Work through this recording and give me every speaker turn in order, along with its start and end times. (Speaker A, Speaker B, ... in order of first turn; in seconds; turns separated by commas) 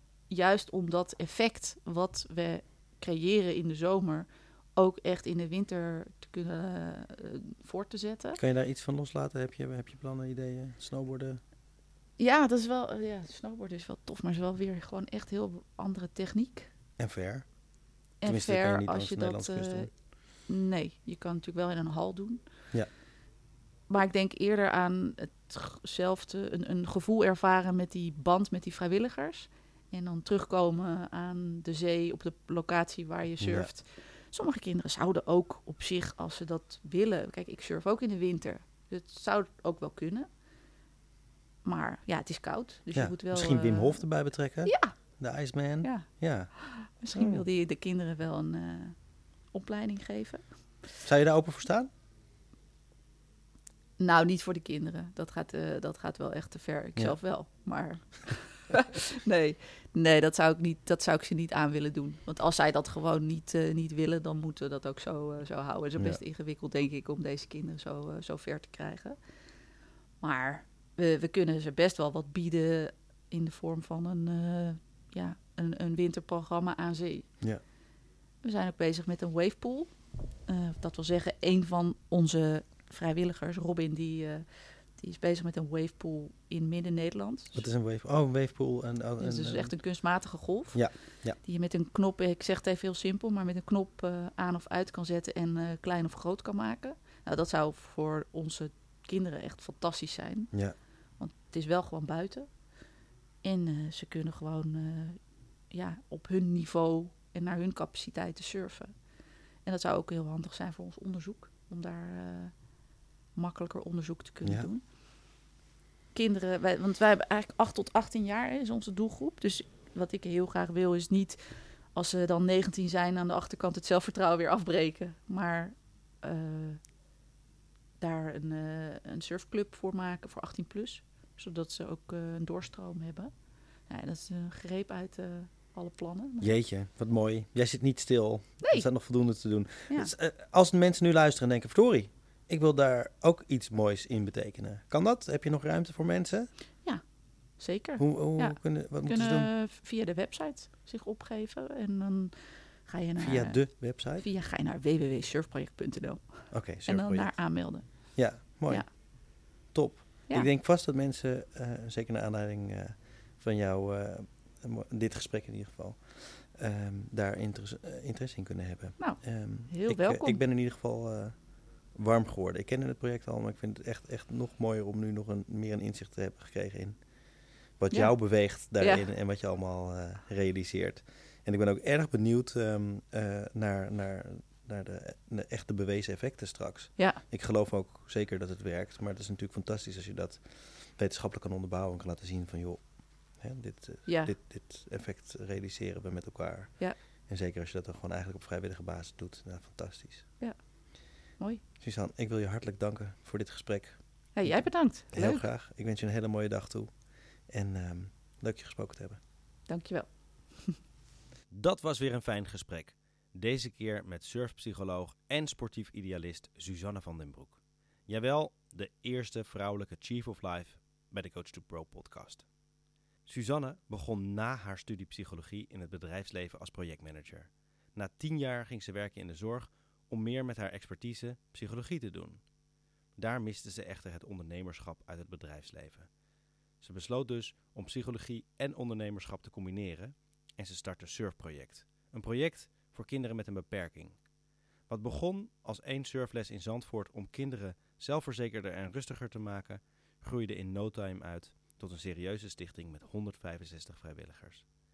Speaker A: 0.3-8.4, Speaker B: 8.4-11.4, Speaker A: 12.2-16.7, Speaker B: 17.0-17.5, Speaker A: 18.2-19.9, Speaker B: 18.2-19.9, Speaker A: 20.5-22.4, Speaker A: 23.9-40.3, Speaker B: 33.4-33.7, Speaker A: 41.6-44.0, Speaker B: 42.9-46.5, Speaker A: 44.6-44.9, Speaker A: 45.8-49.0, Speaker B: 47.1-47.4, Speaker A: 49.5-50.4, Speaker B: 51.0-51.9, Speaker A: 54.0-69.2, Speaker A: 70.2-77.3, Speaker A: 78.4-79.9, Speaker A: 80.5-87.6, Speaker B: 87.5-89.7, Speaker A: 89.2-100.5, Speaker B: 90.7-91.4, Speaker A: 101.2-102.5, Speaker A: 103.4-105.2, Speaker A: 105.7-108.9, Speaker A: 109.6-112.5, Speaker A: 113.3-114.8, Speaker A: 116.1-126.8, Speaker A: 128.0-133.3, Speaker A: 133.9-136.5, Speaker B: 136.4-146.5, Speaker A: 147.6-152.3, Speaker B: 148.0-149.5, Speaker A: 152.8-158.9, Speaker B: 153.2-154.2, Speaker B: 156.5-157.4, Speaker B: 158.1-159.0, Speaker B: 159.7-171.3, Speaker A: 169.0-170.4, Speaker B: 171.9-177.0, Speaker B: 177.8-192.8, Speaker A: 178.8-179.0, Speaker B: 193.4-196.7, Speaker A: 194.1-194.3, Speaker B: 197.3-200.3, Speaker B: 201.8-206.9, Speaker A: 204.3-205.5, Speaker B: 207.5-209.2, Speaker A: 209.7-210.8, Speaker B: 211.5-222.4, Speaker B: 223.2-232.4, Speaker B: 233.2-236.1, Speaker B: 236.8-244.2, Speaker B: 244.9-254.7